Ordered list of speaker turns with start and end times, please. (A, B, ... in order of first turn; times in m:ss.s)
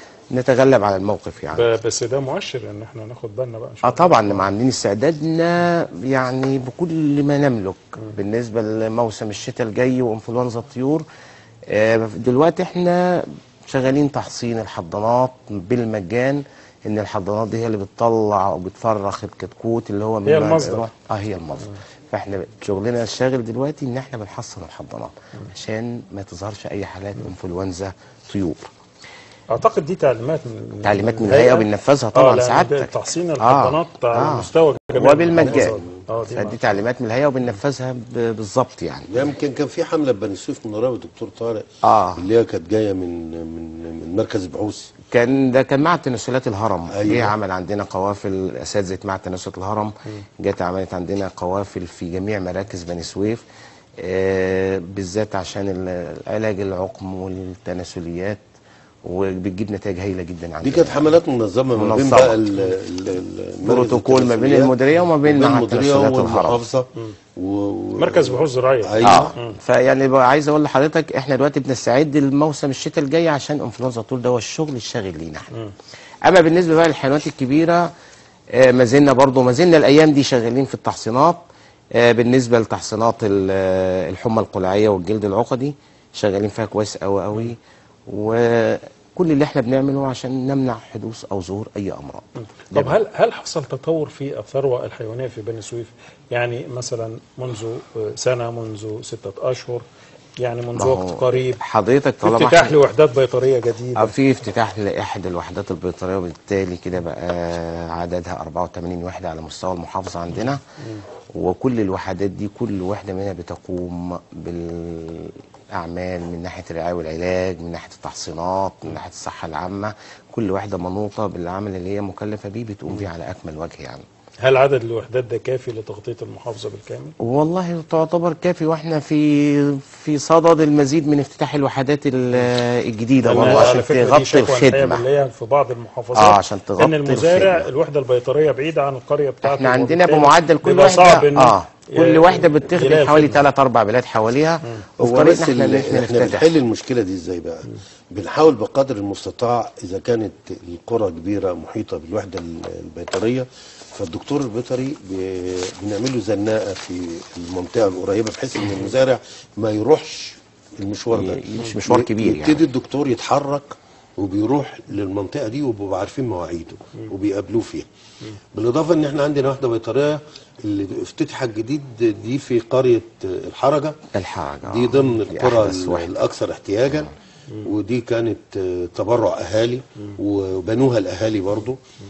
0:00.3-0:01.7 A
0:01.5-0:04.4 B
0:03.8-0:11.0 A
0:11.7-0:28.7 A
0:20.3-0:20.8 B
0:29.5-0:36.6 B
0:30.8-0:39.2 A
0:35.4-0:36.0 C
0:39.1-0:41.6 C
0:41.8-0:42.3 A
0:42.2-0:44.9 C
0:45.1-0:53.4 A
0:46.9-0:47.3 C
0:54.0-0:58.4 A
0:59.0-1:01.0 A
1:00.6-1:09.4 C
1:01.8-1:02.4 A
1:03.6-1:06.6 A
1:08.0-1:09.6 B
1:09.0-1:15.5 A
1:16.3-1:17.9 A
1:18.5-1:21.4 A
1:22.0-1:33.0 A
1:32.4-1:39.8 B
1:40.4-1:41.6 B
1:40.8-1:42.8 A
1:42.2-1:44.1 B
1:44.0-1:50.6 A
1:51.3-2:04.0 A
2:04.4-2:07.2 B
2:07.2-2:15.0 A
2:13.2-2:23.4 B
2:16.1-2:17.7 A
2:19.4-2:26.5 A
2:25.0-2:47.9 C
2:41.1-2:42.6 A
2:48.5-2:54.0 C
2:54.1-2:56.1 A
2:54.7-2:57.1 C
2:57.6-3:01.8 C